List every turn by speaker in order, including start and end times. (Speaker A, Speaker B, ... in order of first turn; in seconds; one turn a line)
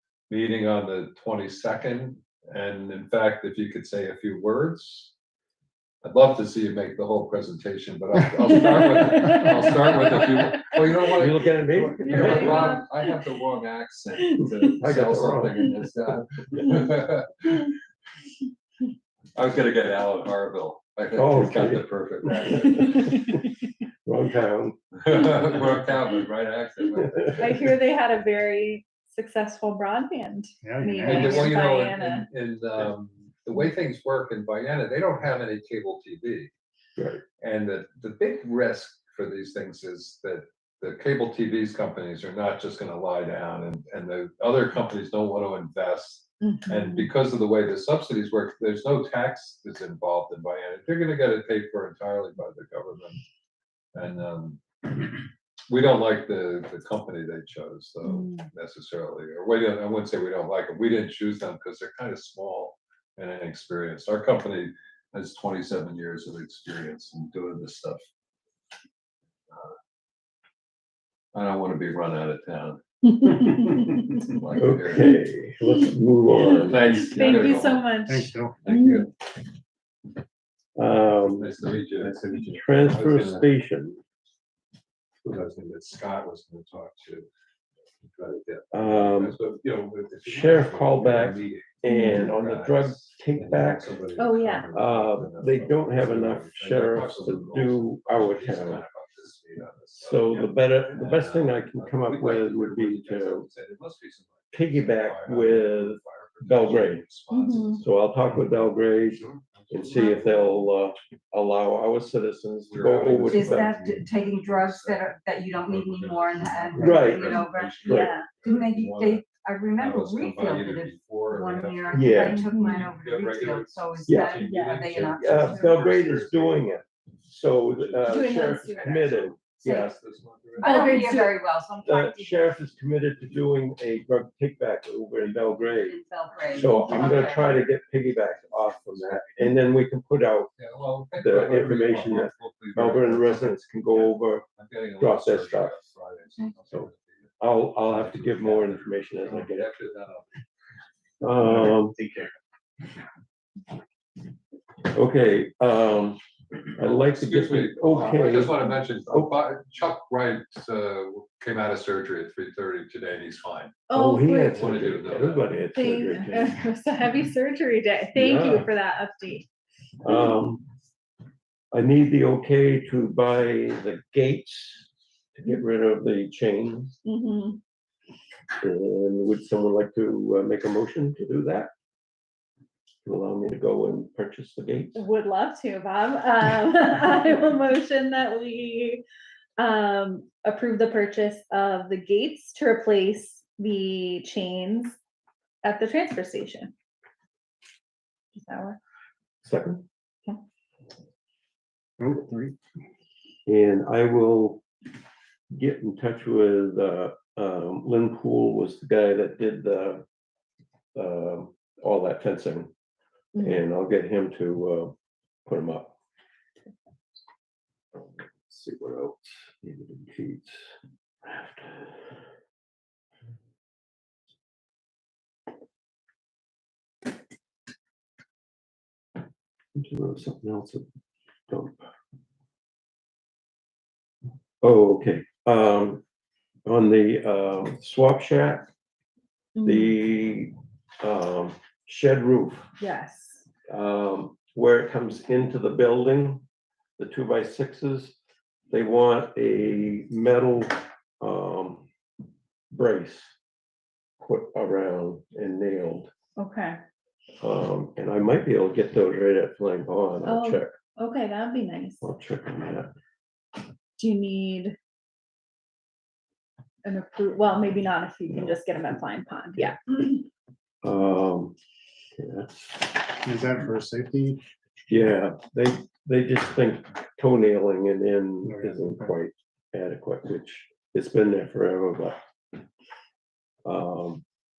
Speaker A: 0.3-5.1
Speaker A: 6.0-17.7
Speaker B: 11.0-12.8
Speaker C: 12.0-12.8
Speaker B: 14.8-15.7
Speaker A: 19.4-23.1
Speaker B: 21.1-23.4
Speaker B: 24.1-25.6
Speaker A: 25.0-27.7
Speaker C: 27.4-32.3
Speaker D: 30.6-31.6
Speaker A: 31.0-36.5
Speaker B: 37.0-37.2
Speaker A: 37.4-53.2
Speaker C: 46.4-47.0
Speaker A: 54.0-55.0
Speaker A: 55.7-68.0
Speaker C: 58.0-58.5
Speaker A: 69.5-69.8
Speaker A: 71.3-75.1
Speaker C: 73.2-74.1
Speaker B: 74.6-77.2
Speaker A: 76.4-77.9
Speaker C: 76.8-79.0
Speaker D: 78.0-78.8
Speaker A: 78.6-79.1
Speaker B: 80.8-81.5
Speaker A: 81.2-83.5
Speaker B: 82.3-84.0
Speaker A: 85.2-87.3
Speaker A: 88.1-107.9
Speaker B: 88.7-89.4
Speaker B: 90.2-94.0
Speaker C: 91.9-92.3
Speaker C: 94.2-94.7
Speaker B: 94.7-98.8
Speaker B: 100.0-103.5
Speaker B: 104.5-107.0
Speaker C: 107.3-107.8
Speaker B: 107.8-113.8
Speaker A: 109.2-110.5
Speaker A: 112.7-119.2
Speaker E: 113.3-126.0
Speaker B: 116.8-118.1
Speaker C: 117.8-118.6
Speaker A: 119.8-126.9
Speaker B: 121.9-122.5
Speaker C: 122.5-122.8
Speaker B: 124.1-124.4
Speaker C: 124.4-124.8
Speaker B: 124.9-130.0
Speaker A: 127.7-130.9
Speaker C: 128.1-129.0
Speaker E: 128.1-129.9
Speaker E: 130.6-132.5
Speaker C: 130.6-131.3
Speaker B: 131.8-140.5
Speaker E: 135.7-137.6
Speaker A: 136.7-137.2
Speaker A: 140.6-147.3
Speaker B: 141.2-144.4
Speaker B: 145.0-145.8
Speaker B: 147.4-149.7
Speaker A: 147.8-150.4
Speaker B: 151.2-152.0
Speaker B: 154.9-156.2
Speaker B: 156.8-159.3
Speaker A: 156.8-163.8
Speaker C: 163.9-164.6
Speaker B: 163.9-166.6
Speaker A: 164.4-165.5
Speaker C: 165.8-169.5
Speaker B: 168.2-168.7
Speaker B: 170.0-170.7
Speaker B: 171.7-176.9
Speaker C: 177.1-177.6
Speaker B: 178.6-181.7
Speaker B: 183.1-185.0
Speaker C: 184.9-189.0
Speaker C: 189.6-195.0
Speaker C: 195.6-196.7
Speaker C: 198.3-198.8
Speaker B: 199.4-199.8
Speaker D: 202.0-202.6
Speaker B: 203.5-204.7
Speaker B: 205.5-210.0
Speaker B: 210.9-212.7
Speaker C: 213.3-213.6
Speaker B: 213.4-214.9
Speaker B: 215.5-216.0
Speaker B: 217.9-220.7
Speaker B: 221.2-222.0
Speaker B: 229.8-230.9
Speaker B: 231.5-231.9
Speaker B: 234.6-236.0
Speaker B: 236.7-238.7
Speaker C: 239.6-239.9
Speaker B: 239.6-242.7
Speaker C: 242.8-243.5
Speaker B: 243.7-246.4
Speaker B: 247.0-248.2
Speaker B: 248.7-251.9
Speaker B: 252.7-253.3
Speaker B: 254.2-256.1
Speaker C: 256.4-256.8
Speaker B: 257.4-260.8
Speaker C: 260.2-262.0
Speaker B: 262.0-262.9
Speaker C: 264.0-264.8
Speaker C: 266.8-270.2
Speaker B: 270.8-271.6
Speaker B: 272.2-273.0
Speaker D: 273.2-274.4
Speaker B: 274.9-282.2
Speaker D: 278.4-279.1
Speaker B: 283.6-284.2